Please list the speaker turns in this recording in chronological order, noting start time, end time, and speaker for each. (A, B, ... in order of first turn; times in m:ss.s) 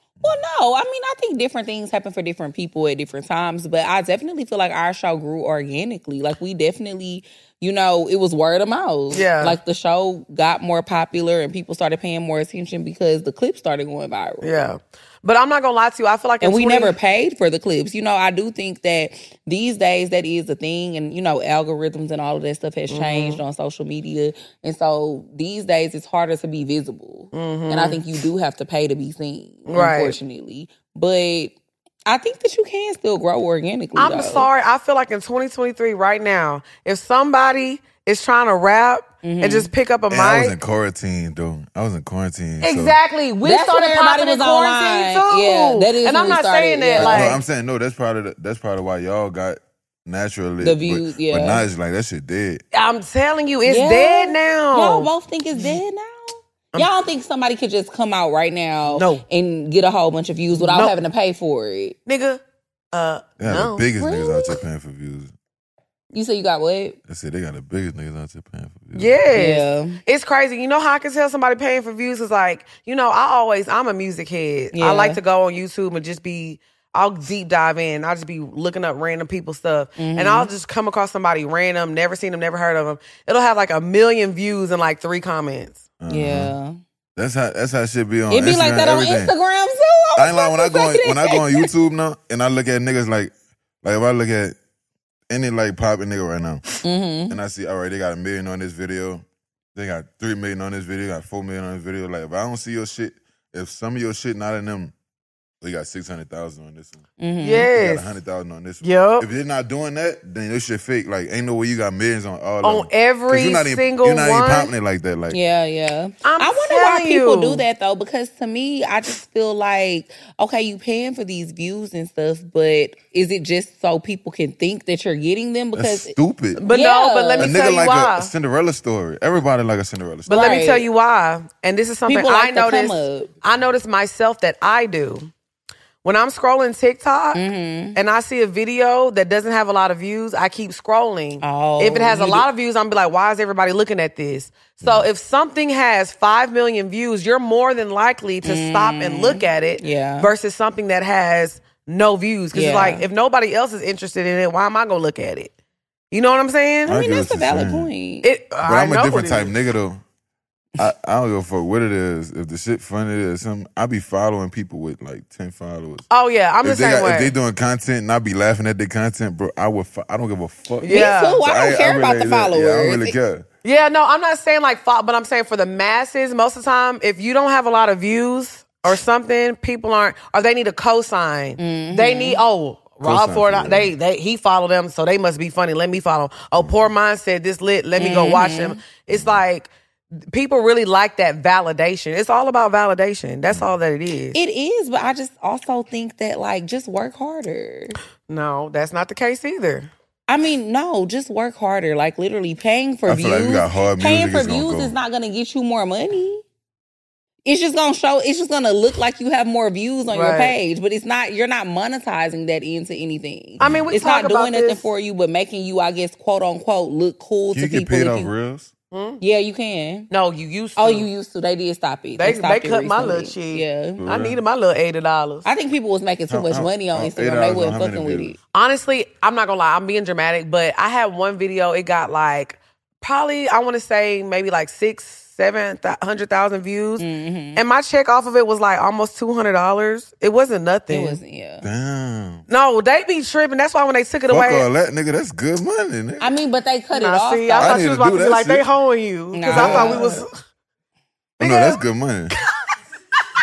0:00.2-0:14.6 A
0:09.1-0:09.6 B
0:14.4-0:16.9 B
0:16.4-0:34.5 A
0:22.9-0:23.4 B
0:27.3-0:28.0 B
0:29.7-0:30.2 B
0:34.0-0:40.6 B
0:39.2-0:39.7 A
0:40.1-0:43.0 C
0:42.6-0:47.4 B
0:43.4-0:47.3 A
0:47.0-0:52.6 C
0:50.6-0:51.6 A
0:52.7-0:55.8 B
0:53.6-1:02.0 A
0:58.9-0:59.2 B
1:00.5-1:00.9 B
1:02.0-1:03.9 B
1:03.4-1:05.3 C
1:04.0-1:04.6 A
1:06.1-1:07.0 A
1:07.1-1:09.1 C
1:08.9-1:25.8 B
1:09.3-1:10.0 A
1:14.7-1:15.2 A
1:20.0-1:20.5 A
1:26.0-1:26.5 C
1:26.1-1:26.8 A
1:27.2-1:29.3 C
1:28.3-1:31.7 A
1:30.2-1:33.3 C
1:33.8-1:34.6 C
1:35.3-1:36.7 C
1:36.8-1:37.4 A
1:37.3-1:39.2 C
1:39.7-1:44.9 C
1:45.6-1:47.0 C
1:47.2-1:47.7 A
1:47.4-1:48.1 B
1:47.7-1:55.4 C
1:48.8-1:49.3 B
1:52.6-1:54.7 B
1:55.3-2:06.1 A
1:56.2-1:57.6 B
2:05.7-2:06.6 C
2:06.6-2:08.3 B
2:06.7-2:07.5 A
2:07.4-2:10.5 C
2:10.3-2:15.3 B
2:10.3-2:10.9 A
2:12.1-2:13.3 A
2:16.0-2:17.4 B
2:17.3-2:18.0 A
2:17.9-2:35.5 B
2:21.4-2:22.4 A
2:28.4-2:30.3 A
2:32.5-2:33.0 A
2:36.1-2:37.0 B
2:36.8-2:37.9 C
2:36.9-2:38.3 A
2:38.2-2:39.5 B
2:38.6-2:40.0 C
2:40.8-2:46.1 C
2:46.1-2:47.3 B
2:46.6-2:53.4 C
2:50.8-2:51.4 B
2:50.8-2:53.1 A
2:53.6-3:14.4 B
3:01.6-3:02.4 A
3:03.0-3:03.9 C
3:06.6-3:06.8 C
3:08.0-3:08.8 A
3:09.1-3:09.4 C
3:14.3-3:18.0 A
3:18.3-3:19.9 B
3:20.3-3:26.4 A
3:23.0-3:24.9 C
3:27.4-3:38.3 A
3:30.1-3:30.5 B
3:33.6-3:33.9 C
3:33.6-3:34.9 B
3:37.5-3:38.7 C
3:38.9-3:39.2 B
3:39.2-3:40.1 A
3:40.1-3:41.1 B
3:40.8-3:44.0 A
3:42.2-3:45.4 B
3:44.0-3:44.4 C
3:45.4-3:48.4 A
3:46.3-3:48.3 C
3:48.5-4:01.2 B
3:57.0-3:57.6 A
4:00.9-4:01.7 A
4:01.6-4:02.4 C
4:02.5-4:04.7 B
4:04.3-4:06.3 C
4:06.2-4:07.8 A
4:06.9-4:10.4 B
4:07.6-4:08.6 C
4:09.3-4:10.2 A
4:09.5-4:10.2 C
4:11.4-4:12.3 C
4:11.4-4:11.8 B
4:12.3-4:12.7 B